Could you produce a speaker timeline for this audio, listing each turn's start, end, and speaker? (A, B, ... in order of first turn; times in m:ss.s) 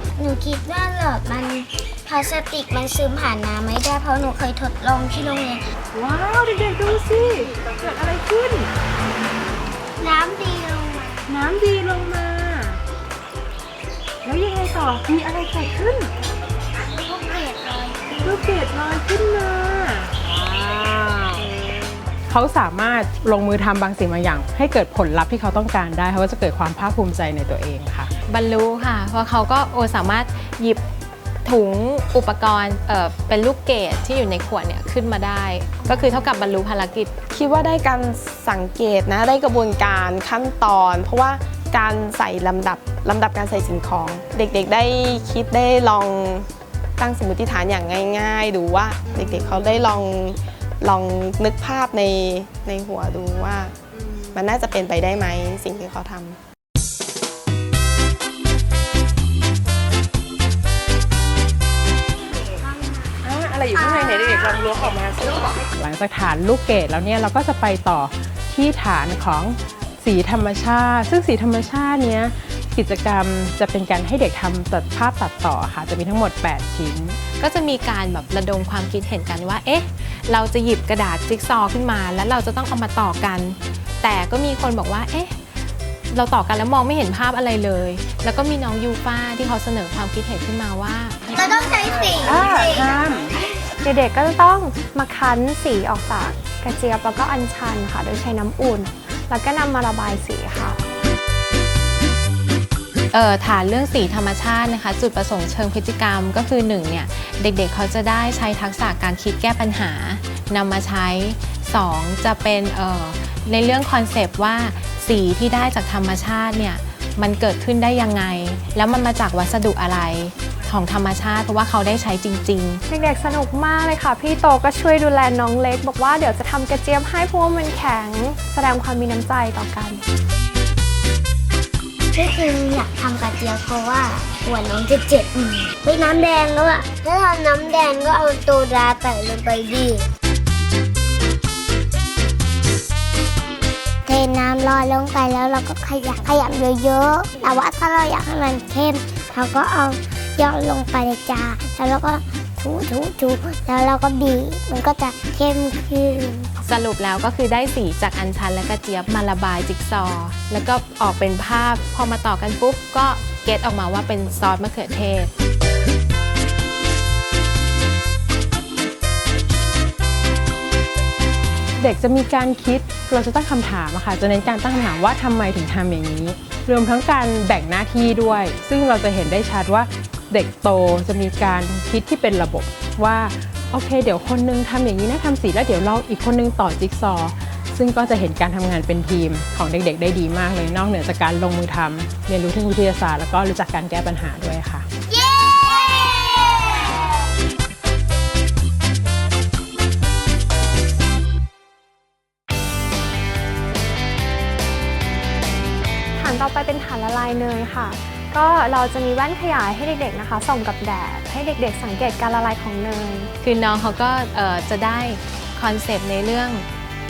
0:00.2-0:05.6 A
0:06.0-0:08.7 B
0:10.0-0:11.3 A
0:11.3-0:12.8 B
0:14.2-0:16.1 B
0:16.9-0:18.4 A
0:18.2-0:21.5 B
0:22.3-0:28.1 B
0:28.3-0:30.8 C
0:31.4-0:37.2 C
0:37.3-0:46.5 D
0:47.0-0:53.7 D
0:54.3-0:56.4 D
1:03.3-1:04.6 B
1:03.8-1:04.5 A
1:05.8-1:17.2 B
1:17.4-1:25.4 C
1:26.1-1:31.4 C
1:31.4-1:32.9 A
1:31.4-1:33.3 B
1:31.6-1:32.6 E
1:33.8-1:40.8 E
1:43.1-2:02.8 C
2:02.9-2:10.0 E
2:12.1-2:20.1 A
2:24.1-2:36.5 A
2:36.6-2:45.3 C
2:51.8-3:14.9 B
3:15.1-3:17.1 A
3:26.2-3:33.3 E
3:33.4-3:36.6 C